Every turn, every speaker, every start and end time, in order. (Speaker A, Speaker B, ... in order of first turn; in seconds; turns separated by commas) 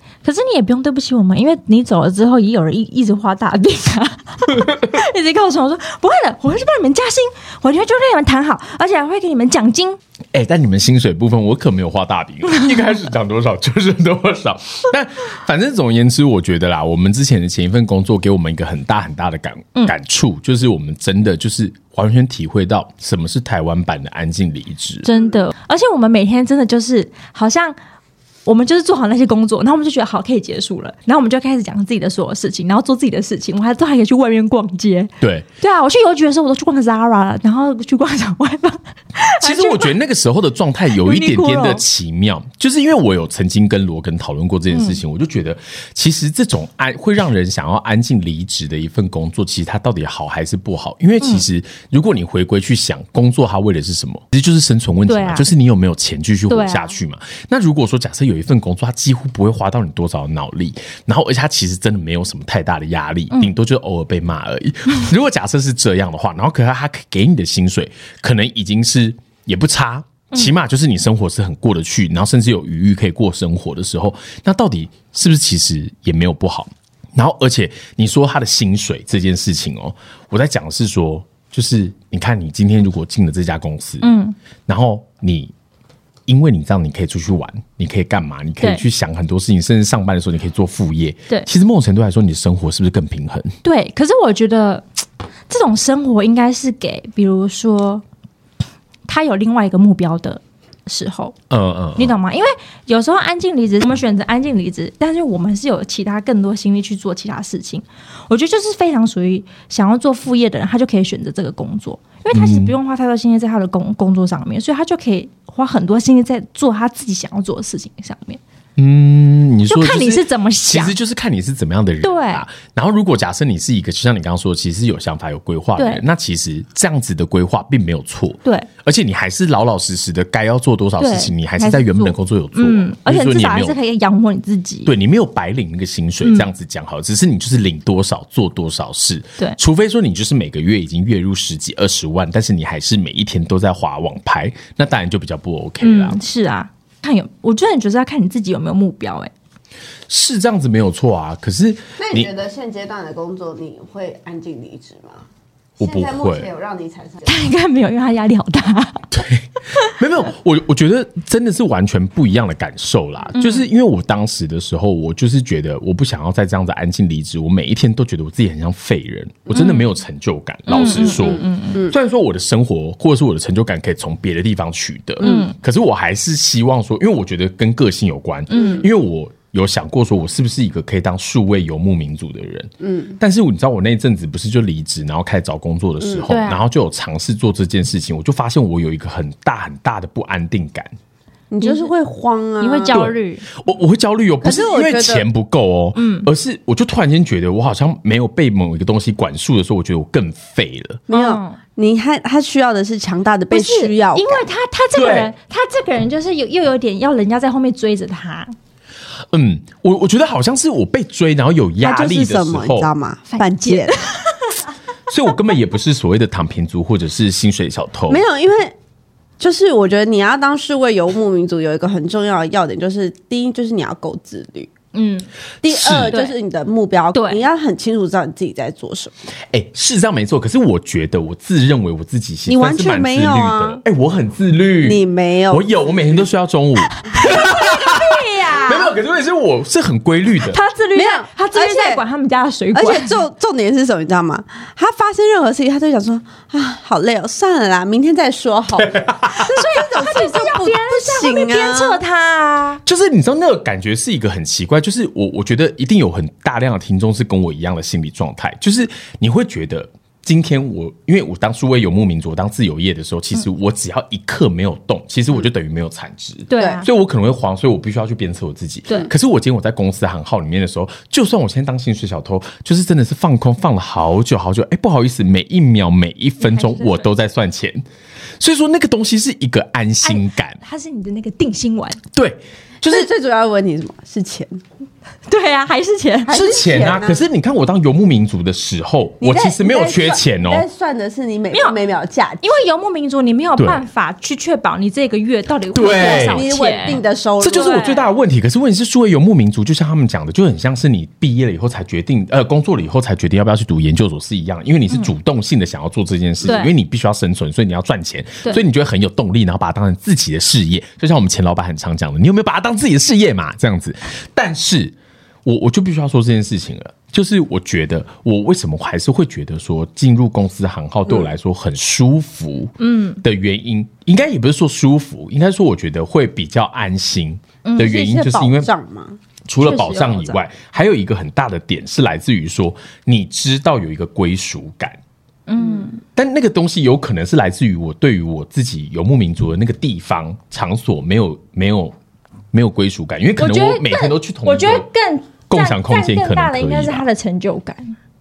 Speaker A: 0.2-10.0, Speaker B: 4.5-4.8, Speaker B: 10.3-25.1, Speaker A: 25.0-27.8, Speaker A: 28.4-40.0, Speaker B: 35.2-35.5, Speaker B: 39.4-84.1, Speaker A: 40.9-41.8, Speaker A: 44.7-45.0, Speaker A: 55.1-55.5, Speaker A: 56.5-56.9, Speaker A: 84.0-84.4, Speaker B: 84.7-85.5, Speaker B: 86.3-93.5, Speaker A: 93.6-94.8, Speaker A: 95.5-98.0, Speaker A: 99.1-101.3, Speaker B: 101.5-102.1, Speaker A: 102.0-118.4, Speaker B: 112.3-112.8, Speaker B: 118.8-133.8, Speaker A: 119.7-121.0, Speaker A: 122.0-122.4, Speaker A: 125.8-126.0, Speaker A: 131.0-134.9, Speaker B: 134.8-146.2, Speaker A: 145.8-149.3, Speaker B: 150.1-152.3, Speaker C: 152.0-155.2, Speaker B: 155.8-156.5, Speaker C: 155.8-157.5, Speaker A: 157.2-159.1, Speaker B: 159.1-190.9, Speaker A: 163.3-163.7, Speaker A: 169.5-169.9, Speaker A: 170.7-171.8, Speaker C: 170.8-171.9, Speaker C: 175.2-175.5, Speaker A: 175.2-175.5, Speaker C: 178.5-178.8, Speaker A: 178.5-178.8, Speaker C: 182.8-183.2, Speaker A: 186.3-186.6, Speaker C: 191.5-193.1, Speaker A: 191.6-191.9, Speaker A: 192.6-193.5, Speaker B: 192.9-201.0, Speaker C: 194.4-195.2, Speaker A: 196.0-196.3, Speaker C: 201.1-204.5, Speaker A: 201.1-201.6, Speaker A: 203.5-208.5, Speaker B: 204.9-205.3, Speaker B: 209.3-212.9, Speaker C: 211.8-214.0, Speaker A: 213.3-214.5, Speaker B: 215.1-218.2, Speaker C: 218.1-218.8, Speaker C: 219.4-224.7, Speaker A: 224.9-225.3, Speaker C: 225.6-229.1, Speaker B: 225.7-226.2, Speaker A: 226.1-226.4, Speaker A: 227.1-227.4, Speaker B: 229.5-240.6, Speaker C: 232.5-233.8, Speaker C: 234.8-235.7, Speaker A: 237.0-239.0, Speaker C: 237.2-237.5, Speaker A: 240.4-243.2, Speaker C: 240.9-242.0, Speaker C: 242.7-252.0, Speaker B: 248.8-249.5, Speaker A: 249.3-252.8, Speaker B: 252.8-277.8, Speaker A: 266.5-266.9, Speaker C: 266.6-266.8, Speaker A: 276.4-277.1, Speaker B: 278.4-280.6, Speaker A: 280.0-282.0, Speaker B: 282.1-283.1, Speaker C: 282.9-284.6, Speaker A: 285.3-286.4, Speaker C: 286.2-287.2, Speaker B: 286.3-290.6, Speaker C: 289.2-292.5, Speaker A: 291.5-291.8, Speaker A: 292.4-298.1, Speaker B: 293.6-293.8, Speaker B: 295.7-296.5, Speaker C: 295.8-297.9, Speaker B: 297.4-328.7, Speaker A: 306.4-306.7, Speaker A: 322.8-323.2, Speaker A: 327.6-327.9, Speaker C: 327.8-329.2, Speaker B: 329.5-335.0, Speaker A: 329.6-330.4, Speaker A: 335.5-336.0, Speaker B: 336.2-342.0, Speaker B: 342.5-344.9, Speaker A: 343.4-348.0, Speaker B: 345.5-347.1